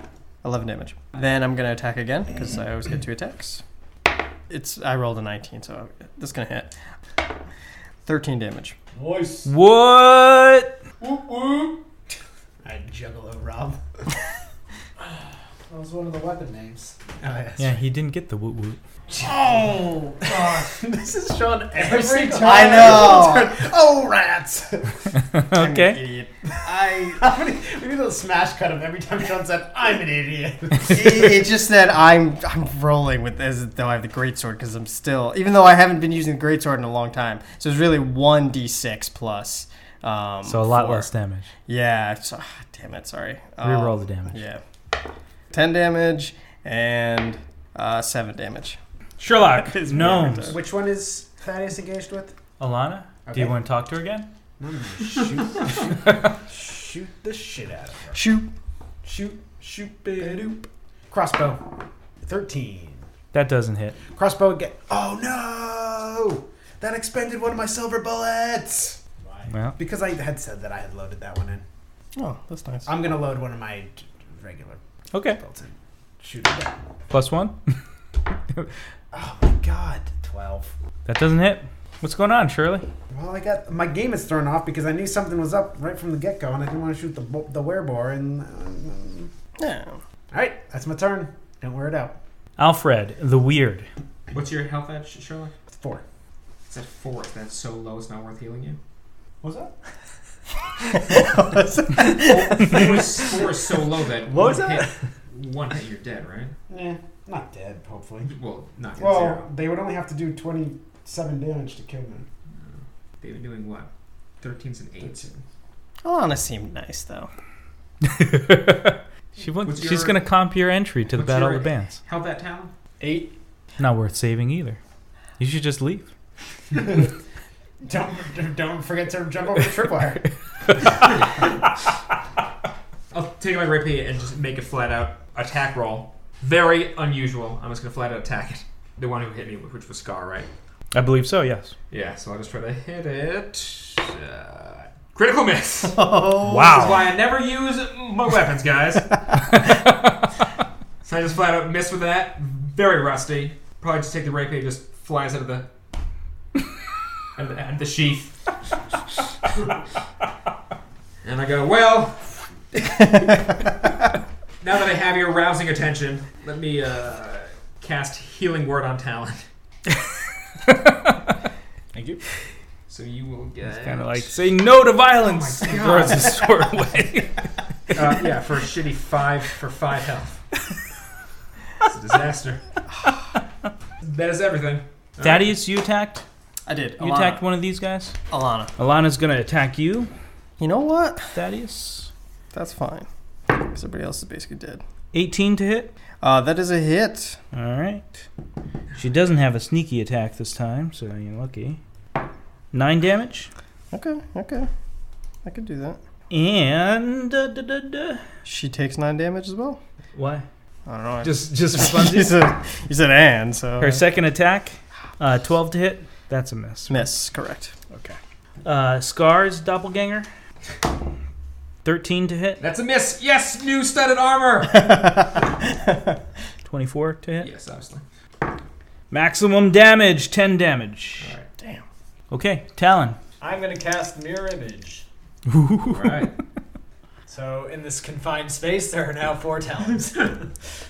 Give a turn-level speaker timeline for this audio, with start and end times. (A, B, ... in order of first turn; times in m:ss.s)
0:00.4-0:03.6 A
0:04.5-0:06.8 A
0:08.0-0:08.8 A
0:09.0-0:09.5 B
0:09.4-0:10.8 C
0:11.0-0:11.9 B
0:12.6-0:13.8 D
0:15.0-0:17.1 B
0:17.2-0:17.8 D
0:17.6-0:18.8 C
0:19.1-0:25.0 D
0:19.3-0:20.5 A
0:19.3-0:19.7 B
0:20.4-0:20.6 B
0:21.8-0:23.2 B
0:22.1-0:23.6 A
0:25.3-0:26.0 C
0:25.5-0:27.2 A
0:26.5-0:31.5 D
0:30.8-0:41.1 A
0:40.4-0:41.5 C
0:41.7-0:44.6 A
0:43.6-0:44.4 C
0:45.5-0:48.8 A
0:49.2-0:50.6 C
0:49.6-0:50.6 A
0:50.5-0:52.4 D
0:52.6-0:54.3 C
0:53.3-0:53.6 D
0:54.6-0:58.2 D
0:58.1-0:58.5 A
0:59.0-1:00.6 D
1:00.0-1:00.6 B
1:01.1-1:03.1 D
1:03.3-1:04.0 C
1:04.1-1:11.6 D
1:09.5-1:09.8 C
1:12.2-1:12.9 A
1:12.9-1:14.8 D
1:15.1-1:15.4 C
1:15.3-1:16.8 D
1:17.1-1:17.8 C
1:19.1-1:20.7 D
1:21.1-1:22.9 C
1:23.1-1:29.3 D
1:29.6-1:30.0 A
1:30.3-1:32.2 D
1:32.6-1:33.9 C
1:34.3-1:35.5 E
1:35.7-1:36.0 D
1:36.7-1:38.8 E
1:39.4-1:39.8 D
1:40.9-1:43.4 A
1:42.0-1:46.6 E
1:44.3-1:44.9 D
1:46.7-1:48.3 D
1:48.3-1:49.4 E
1:49.0-1:52.3 D
1:52.6-1:53.9 E
1:54.4-1:55.3 E
1:55.0-1:55.4 D
1:56.0-1:57.3 A
1:58.0-2:02.0 C
1:59.6-2:00.2 E
2:01.1-2:02.7 E
2:03.0-2:03.4 B
2:03.8-2:04.8 C
2:05.4-2:06.1 C
2:07.8-2:11.0 D
2:13.1-2:20.5 E
2:20.9-2:21.8 C
2:21.9-2:26.1 E
2:25.8-2:27.1 A
2:26.4-2:27.1 C
2:26.7-2:29.6 E
2:31.0-2:35.7 E
2:37.3-2:38.4 E
2:41.2-2:42.5 E
2:44.6-2:49.5 E
2:50.7-2:51.2 C
2:51.9-2:52.2 B
2:52.9-2:54.4 E
2:53.7-2:57.5 C
2:55.2-2:56.5 E
2:57.9-3:00.4 E
3:01.8-3:02.6 E
3:04.0-3:05.6 E
3:05.2-3:06.2 C
3:06.7-3:07.4 A
3:07.0-3:08.2 C
3:08.3-3:08.7 A
3:08.8-3:10.1 C
3:10.6-3:11.4 A
3:11.3-3:12.1 C
3:12.5-3:14.8 A
3:15.1-3:15.9 C
3:16.2-3:17.4 A
3:17.5-3:18.3 C
3:19.0-3:21.8 C
3:22.7-3:23.5 C
3:23.9-3:24.7 A
3:25.4-3:26.0 A
3:26.3-3:28.2 C
3:28.4-3:29.8 A
3:30.2-3:30.4 C
3:30.9-3:34.0 A
3:31.2-3:32.3 C
3:33.8-3:37.0 C
3:36.9-3:37.8 A
3:38.6-3:40.3 C
3:41.8-3:42.6 C
3:42.6-3:45.1 E
3:46.6-3:47.5 C
3:47.4-3:48.0 E
3:49.1-3:51.3 C
3:51.2-3:51.5 E
3:51.6-3:51.8 A
3:52.3-3:53.2 C
3:53.4-3:55.1 B
3:55.5-3:56.2 C
3:55.9-3:56.3 E
3:57.3-4:00.5 B